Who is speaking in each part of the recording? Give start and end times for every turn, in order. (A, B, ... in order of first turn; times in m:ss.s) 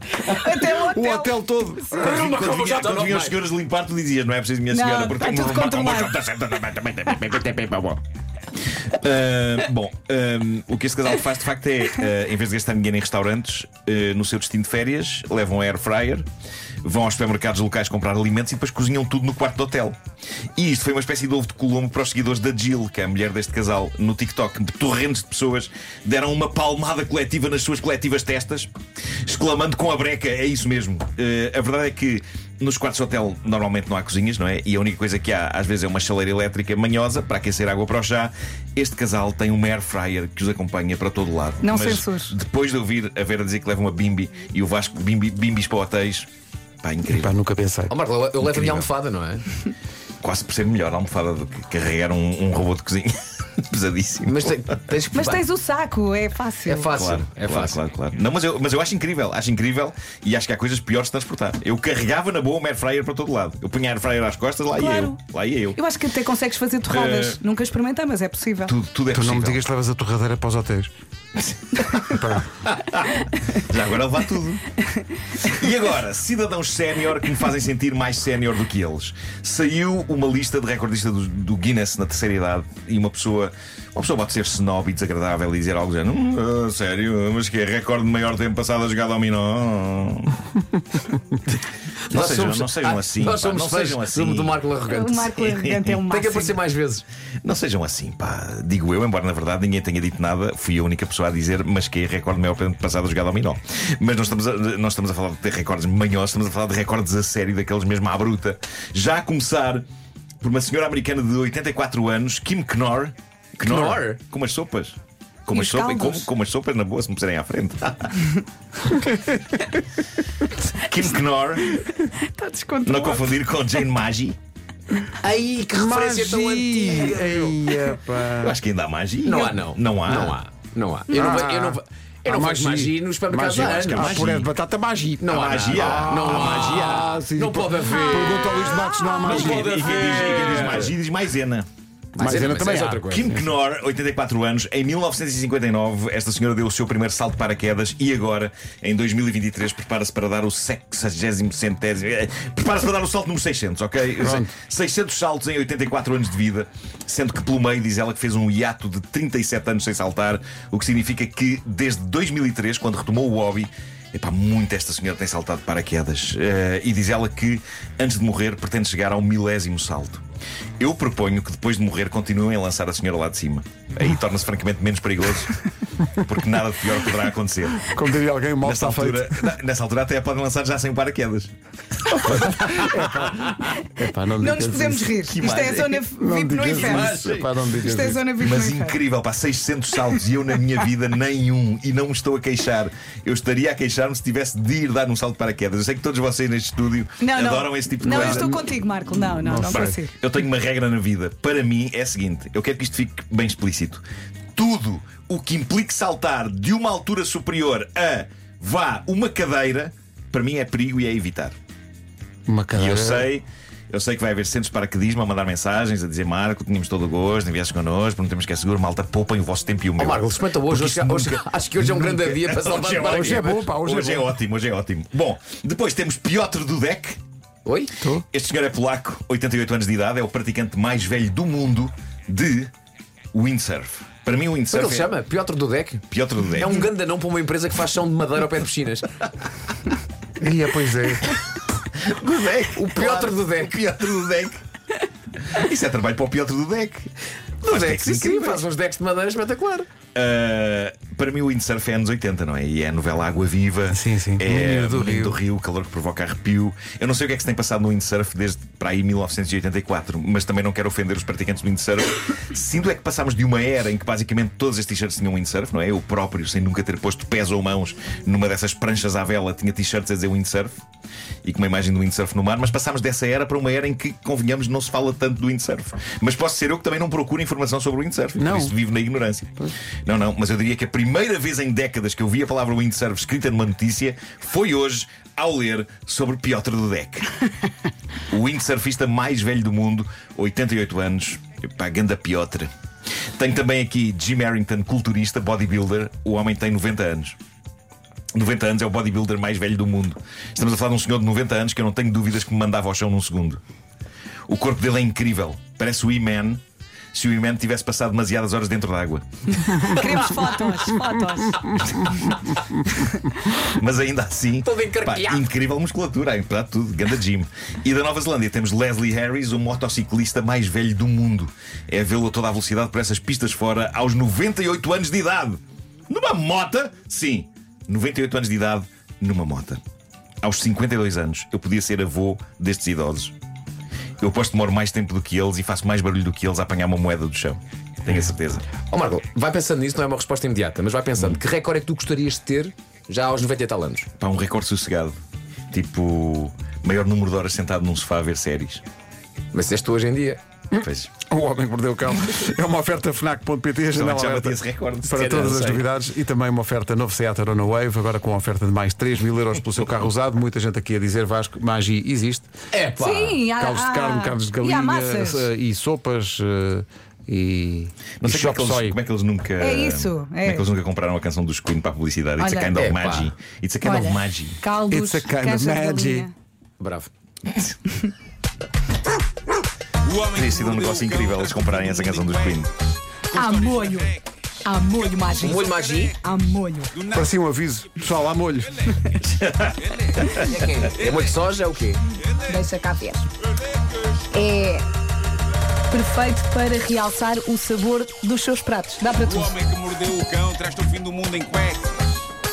0:00.3-0:02.0 A
0:00.7-0:02.3 B
0:01.9-0:03.4 C
0:02.1-0:08.0 D
0:04.7-0:06.1 A
0:08.9-0:16.3 D
0:16.8-0:20.0 D
0:20.6-0:28.7 D
0:29.2-0:46.3 D
0:41.6-0:42.4 A
0:46.8-0:47.3 D
0:47.1-0:48.0 B
0:47.9-0:49.5 C
0:48.4-0:48.8 D
0:50.2-0:54.7 D
0:54.3-0:55.4 C
0:55.2-0:56.9 A
0:56.7-0:57.8 C
0:56.9-1:05.8 D
1:04.7-1:05.2 A
1:05.8-1:08.7 A
1:06.9-1:07.4 D
1:08.7-1:09.6 D
1:09.1-1:10.9 B
1:12.0-1:12.5 B
1:12.1-1:14.7 D
1:15.4-1:30.4 D
1:32.1-1:37.0 C
1:32.1-1:34.6 D
1:34.9-1:36.6 A
1:35.4-1:36.0 D
1:37.4-1:49.8 D
1:50.4-1:55.0 D
1:53.6-1:54.2 C
1:55.5-1:58.2 D
1:55.5-1:56.3 A
2:00.8-2:01.8 D
2:01.7-2:03.3 A
2:02.9-2:04.4 D
2:05.2-2:07.9 C
2:05.8-2:08.6 B
2:08.3-2:10.4 D
2:09.2-2:14.2 C
2:11.1-2:19.8 B
2:13.5-2:14.5 D
2:15.2-2:20.9 C
2:15.3-2:17.0 D
2:19.3-2:21.7 D
2:20.6-2:20.9 B
2:22.2-2:23.5 C
2:22.2-2:23.4 B
2:23.0-2:50.2 D
2:34.2-2:34.5 B
2:50.8-2:55.6 D
2:56.2-2:57.9 D
2:57.8-2:59.5 B
2:58.6-3:01.5 D
3:02.1-3:08.2 B
3:02.3-3:02.7 D
3:04.3-3:07.1 A
3:05.3-3:05.9 D
3:06.8-3:07.6 C
3:07.8-3:09.0 A
3:08.4-3:18.6 D
3:17.2-3:20.1 A
3:18.3-3:18.6 B
3:19.2-3:20.0 B
3:19.7-3:24.0 D
3:24.6-3:31.6 D
3:32.5-3:33.3 B
3:32.7-3:43.0 D
3:40.0-3:43.8 C
3:42.8-3:44.3 B
3:43.8-3:47.2 D
3:47.6-3:47.9 C
3:48.0-3:48.2 B
3:48.3-3:52.7 D
3:53.3-3:55.1 D
3:54.7-3:56.0 C
3:56.1-3:56.9 D
3:56.6-3:59.2 C
4:00.4-4:01.4 B
4:01.9-4:04.6 D
4:02.8-4:03.9 C
4:05.5-4:07.1 D
4:07.6-4:09.9 C
4:07.7-4:08.6 D
4:10.2-4:30.8 D
4:13.9-4:15.4 B
4:31.4-4:47.4 D
4:38.4-4:38.8 B
4:48.3-4:52.7 D
4:53.4-4:57.4 D
4:58.3-5:03.6 D
5:04.5-5:06.6 D
5:07.1-5:10.2 D
5:09.9-5:12.3 A
5:13.6-5:29.8 D
5:14.6-5:15.5 C
5:30.4-5:33.4 D
5:34.2-5:38.7 D
5:38.9-5:44.1 C
5:44.2-5:45.2 D
5:45.7-5:48.8 D
5:49.5-5:50.4 C
5:50.7-6:02.5 B
5:50.8-5:51.1 D
5:53.9-5:55.3 D
5:55.1-5:55.9 C
6:02.7-6:03.4 C
6:03.0-6:05.5 A
6:03.5-6:09.0 B
6:08.2-6:14.6 D
6:09.6-6:10.7 A
6:12.4-6:12.7 A
6:12.8-6:13.3 C
6:13.8-6:16.3 A
6:14.8-6:16.3 B
6:16.8-6:17.1 C
6:20.0-6:22.6 E
6:20.3-6:22.7 D
6:23.3-6:26.2 E
6:23.4-6:25.6 A
6:25.4-6:26.2 C
6:26.2-6:27.0 A
6:26.9-6:27.4 E
6:27.1-6:29.1 B
6:28.8-6:31.4 E
6:29.3-6:30.4 D
6:30.4-6:30.9 A
6:30.5-6:32.0 C
6:32.1-6:32.6 E
6:32.5-6:33.3 A
6:33.6-6:34.3 E
6:34.3-6:34.9 A
6:35.9-6:39.5 A
6:39.2-6:42.3 E